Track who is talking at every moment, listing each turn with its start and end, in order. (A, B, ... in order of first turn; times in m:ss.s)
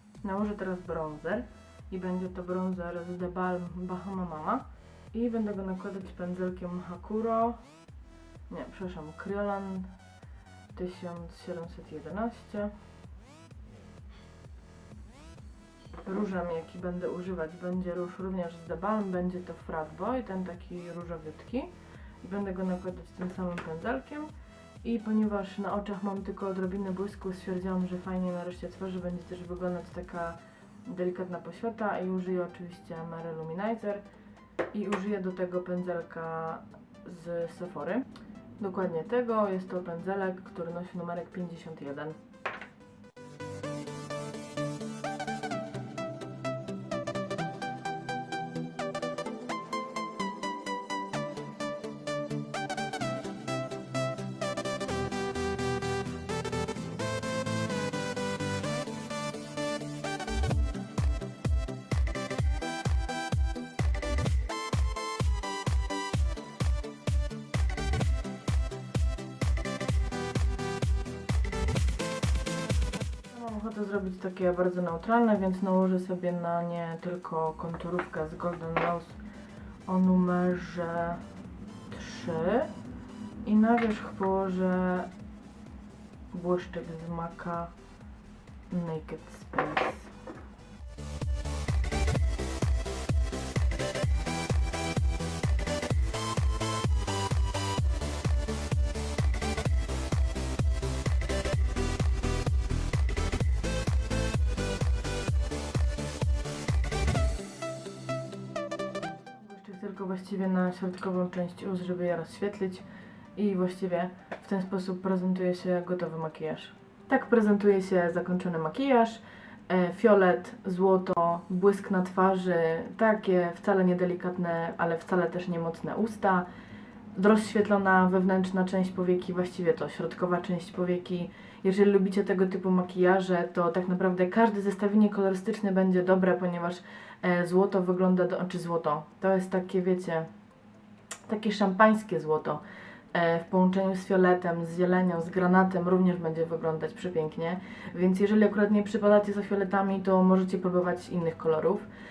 0:00.2-0:07.6 A
0:08.5-0:09.9 A
0:10.7-0:12.7 A
0:16.0-0:21.7 A
0:22.2-0:24.3 A
0:24.8-0:34.0 A
0:34.7-0:38.0 A
0:38.6-0:42.2 A
1:13.3-1:19.2 A
1:19.8-1:21.2 A
1:21.9-1:22.7 A
1:23.4-1:25.1 A
1:26.3-1:27.7 A
1:28.7-1:30.1 A
1:49.3-1:52.8 A
1:53.4-2:06.5 A
2:07.1-2:20.3 A
2:21.2-2:31.9 A